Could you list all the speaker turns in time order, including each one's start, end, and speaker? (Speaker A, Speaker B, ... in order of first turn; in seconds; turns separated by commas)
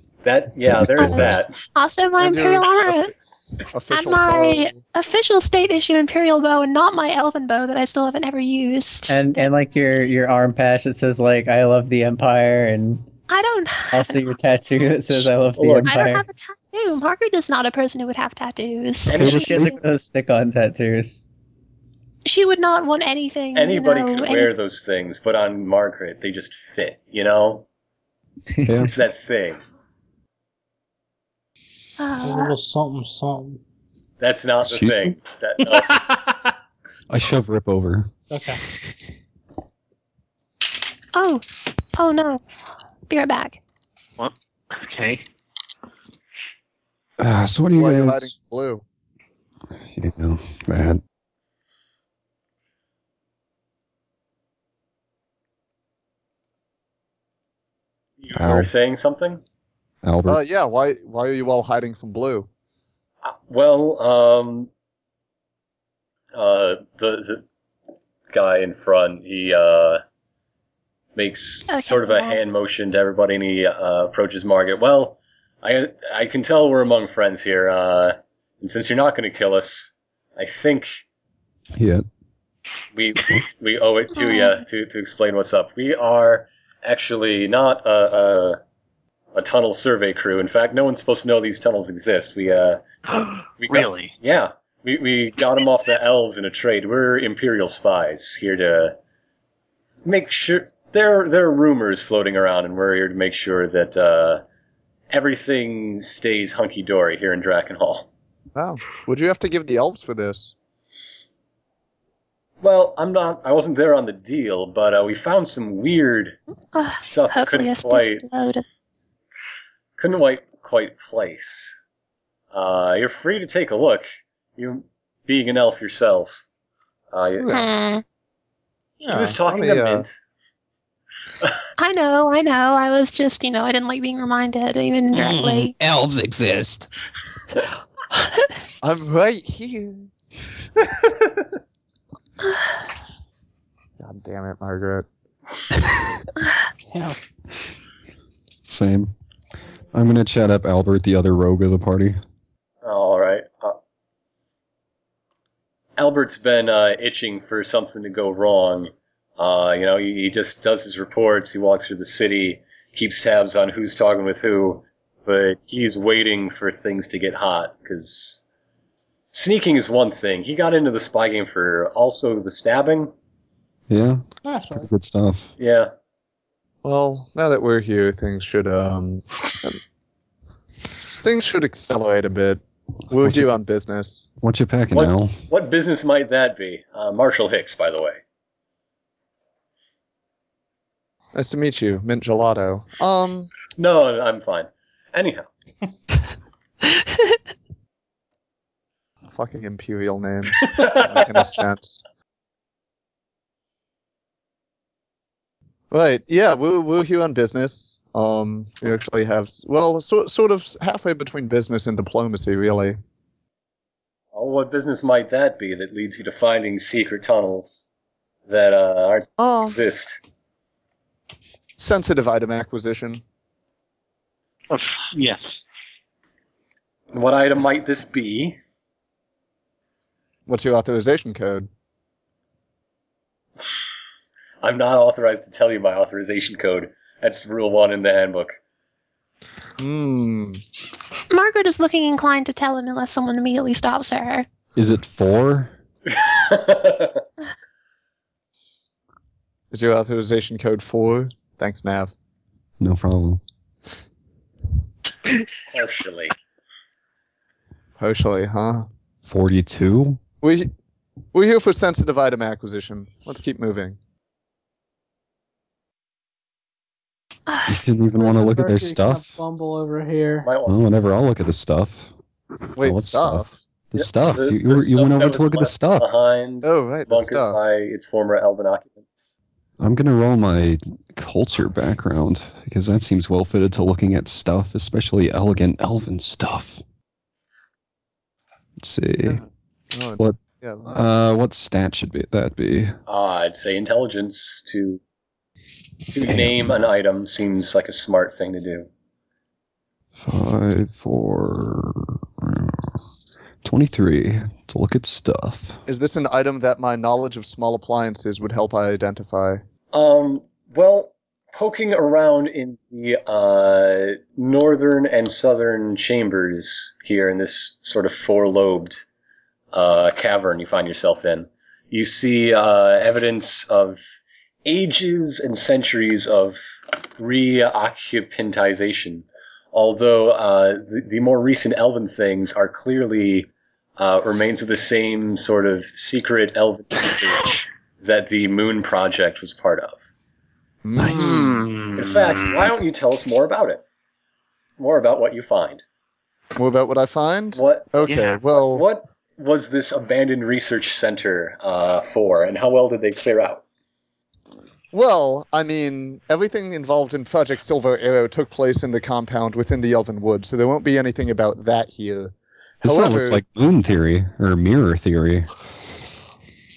Speaker A: 0.2-1.6, Speaker B: 0.6-1.4, Speaker C: 1.0-3.1, Speaker D: 2.2-3.2, Speaker D: 3.7-4.8, Speaker C: 3.9-9.5, Speaker E: 9.1-13.1, Speaker C: 13.3-14.2, Speaker E: 13.9-16.2, Speaker A: 15.6-15.9, Speaker C: 15.9-19.8, Speaker A: 19.1-19.7, Speaker B: 19.1-19.8, Speaker E: 19.1-21.3, Speaker C: 22.2-24.5, Speaker A: 23.6-27.7, Speaker E: 28.6-28.9, Speaker B: 28.7-28.9, Speaker A: 28.9-29.6, Speaker C: 32.0-32.5, Speaker F: 32.2-33.6, Speaker A: 34.2-36.0, Speaker B: 34.6-35.1, Speaker F: 35.6-36.4, Speaker B: 37.1-38.1, Speaker F: 38.3-38.6, Speaker C: 41.1-42.4, Speaker C: 43.1-43.6, Speaker G: 44.2-45.2, Speaker B: 47.2-48.3, Speaker D: 47.7-48.8, Speaker B: 49.9-51.0, Speaker A: 58.2-59.4, Speaker B: 58.3-58.7, Speaker B: 60.0-60.4, Speaker D: 60.3-62.5, Speaker A: 63.2-64.7, Speaker A: 66.3-67.4, Speaker A: 68.3-70.0, Speaker A: 71.2-80.9, Speaker C: 71.7-72.4, Speaker B: 81.8-82.0, Speaker A: 82.9-88.6, Speaker C: 84.1-84.6, Speaker A: 89.3-92.8, Speaker G: 93.1-94.1, Speaker A: 93.6-99.0, Speaker A: 100.0-104.4, Speaker A: 105.1-108.1, Speaker D: 108.5-110.5, Speaker A: 112.6-116.4, Speaker C: 116.7-118.6, Speaker A: 117.0-118.2, Speaker A: 120.0-121.8, Speaker A: 122.5-124.1, Speaker A: 124.6-126.4, Speaker A: 127.1-127.6, Speaker D: 127.4-127.7, Speaker C: 127.5-128.0, Speaker D: 129.0-130.1, Speaker A: 129.0-130.1, Speaker C: 131.8-135.8, Speaker B: 135.2-136.9, Speaker D: 138.8-140.1, Speaker D: 144.0-145.1, Speaker F: 146.8-147.2, Speaker B: 148.7-149.1, Speaker B: 149.9-152.2, Speaker A: 152.8-153.8, Speaker A: 156.0-168.4, Speaker A: 169.3-173.1, Speaker B: 173.9-175.5, Speaker F: 174.4-174.9, Speaker A: 175.6-175.9, Speaker D: 176.8-179.8, Speaker D: 181.2-184.3, Speaker B: 183.2-183.5, Speaker B: 184.4-185.4, Speaker A: 184.9-188.2, Speaker D: 191.3-193.5, Speaker A: 193.8-195.5, Speaker D: 199.3-202.0, Speaker A: 200.7-201.2, Speaker D: 205.9-213.0, Speaker A: 214.3-217.9, Speaker A: 218.5-220.2, Speaker D: 219.4-219.8, Speaker D: 221.8-223.2, Speaker G: 224.7-225.5, Speaker A: 227.1-228.6, Speaker D: 230.5-231.7, Speaker A: 234.6-238.6, Speaker D: 239.8-240.6, Speaker C: 241.3-244.5, Speaker B: 244.8-245.7, Speaker A: 246.1-247.2, Speaker D: 249.7-252.1, Speaker B: 252.8-253.4, Speaker A: 255.7-256.3, Speaker D: 258.0-258.9, Speaker B: 259.2-260.2, Speaker D: 260.4-260.7, Speaker D: 261.3-264.0, Speaker C: 267.5-267.8, Speaker B: 267.7-269.4, Speaker F: 268.1-270.5, Speaker A: 270.4-270.8, Speaker B: 270.7-272.1, Speaker B: 272.8-276.1, Speaker D: 272.8-273.5, Speaker A: 274.0-279.4, Speaker D: 276.6-277.6, Speaker B: 279.8-286.8, Speaker B: 288.8-289.4, Speaker D: 289.2-291.0, Speaker B: 290.2-292.9, Speaker A: 293.1-295.0, Speaker A: 296.1-298.9, Speaker B: 296.2-296.7, Speaker B: 300.2-302.9, Speaker B: 303.6-305.8, Speaker D: 305.9-309.6, Speaker A: 309.9-319.0, Speaker A: 319.7-324.0, Speaker A: 324.6-326.6, Speaker A: 327.2-340.0, Speaker D: 340.8-341.6, Speaker B: 341.0-341.5, Speaker G: 341.1-342.7, Speaker A: 342.0-343.8, Speaker A: 344.8-345.8, Speaker D: 346.6-348.8, Speaker A: 347.6-353.6, Speaker G: 348.1-348.3, Speaker D: 354.9-363.4, Speaker B: 362.8-365.5